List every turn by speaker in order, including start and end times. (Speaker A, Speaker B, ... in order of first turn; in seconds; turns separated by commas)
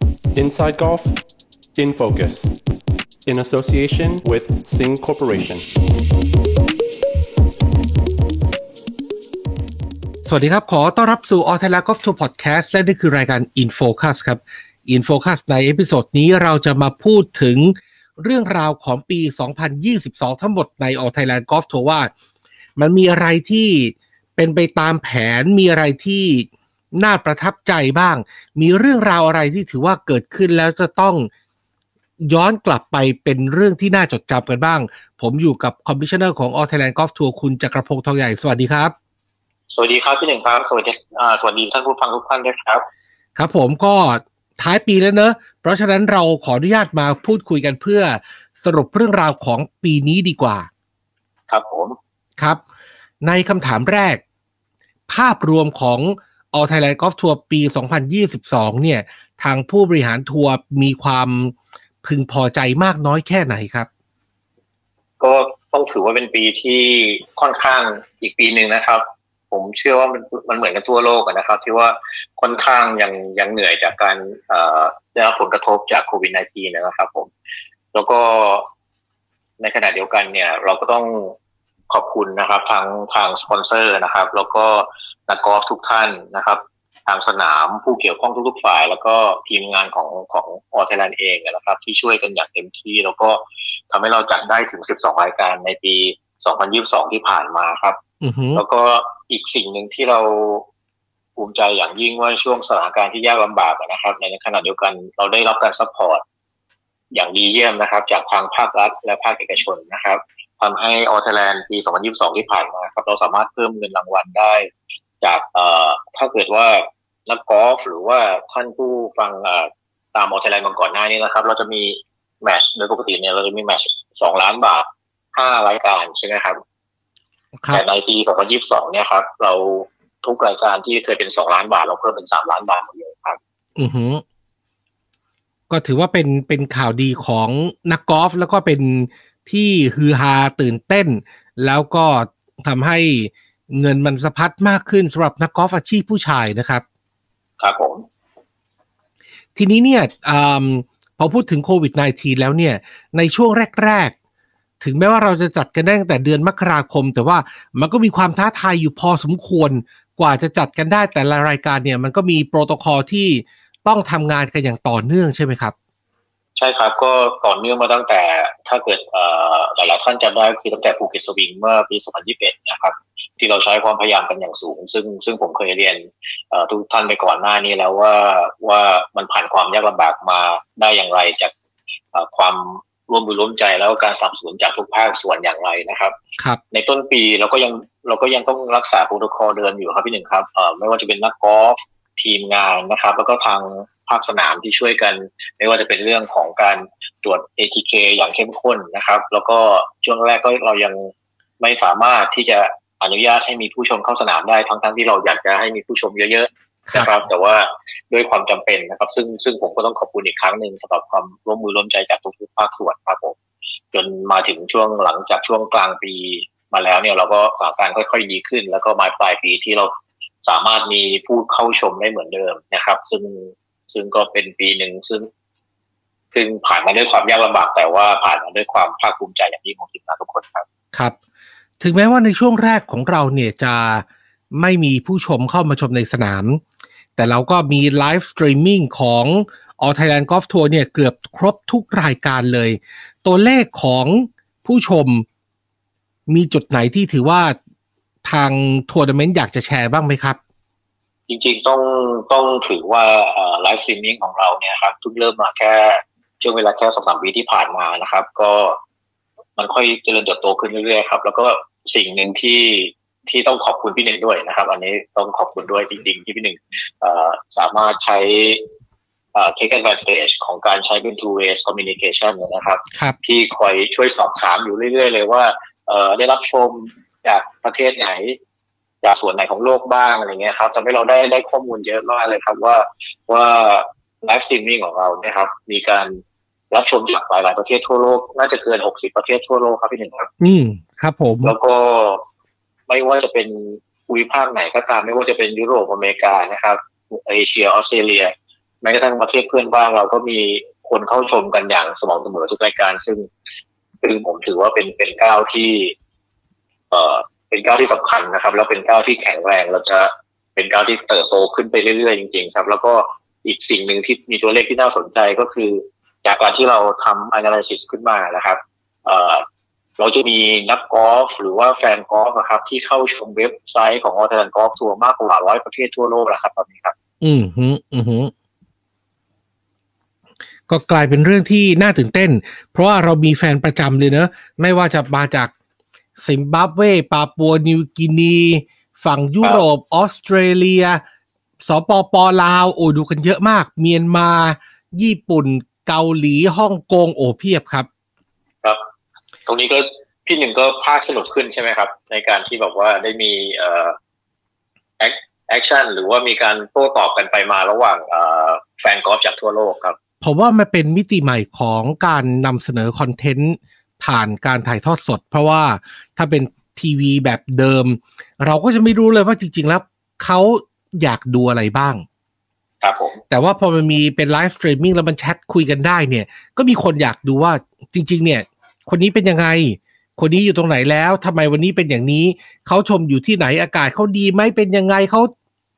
Speaker A: 0.3-1.2, Speaker A: 1.8-2.6, Speaker A: 3.2-5.7, Speaker B: 10.2-22.1, Speaker B: 22.8-31.3, Speaker B: 32.2-38.9, Speaker C: 39.7-42.8, Speaker B: 43.4-50.7, Speaker C: 51.5-52.0, Speaker B: 53.2-54.2, Speaker B: 55.1-63.9, Speaker C: 65.2-77.3, Speaker C: 77.9-78.7, Speaker C: 79.6-81.3, Speaker C: 81.9-98.0, Speaker B: 98.2-98.6, Speaker C: 98.5-100.7, Speaker C: 101.4-106.2, Speaker C: 107.1-114.7, Speaker C: 115.2-126.6, Speaker B: 127.6-127.8, Speaker C: 127.7-133.4, Speaker B: 133.8-134.2, Speaker B: 135.7-146.8, Speaker C: 147.6-148.0, Speaker B: 149.6-154.1, Speaker B: 154.8-165.7, Speaker C: 166.6-181.5, Speaker C: 182.1-186.1, Speaker C: 186.7-213.3, Speaker C: 213.9-219.9, Speaker C: 220.4-225.3, Speaker C: 226.3-230.7, Speaker B: 231.8-236.6, Speaker B: 237.2-245.2, Speaker B: 246.3-247.6, Speaker B: 248.2-250.4, Speaker C: 251.3-258.8, Speaker C: 259.6-268.7, Speaker C: 269.3-278.4, Speaker C: 279.0-286.2, Speaker C: 286.7-290.3, Speaker B: 290.4-291.5, Speaker C: 291.4-292.2, Speaker C: 292.9-303.3, Speaker C: 304.0-305.9, Speaker C: 306.9-319.4, Speaker C: 320.0-326.9, Speaker B: 327.2-328.3, Speaker B: 330.7-335.5, Speaker B: 336.2-341.0, Speaker B: 341.6-347.9, Speaker C: 349.4-353.9, Speaker C: 355.0-360.0, Speaker B: 360.2-372.0, Speaker C: 372.8-373.2, Speaker B: 373.3-385.3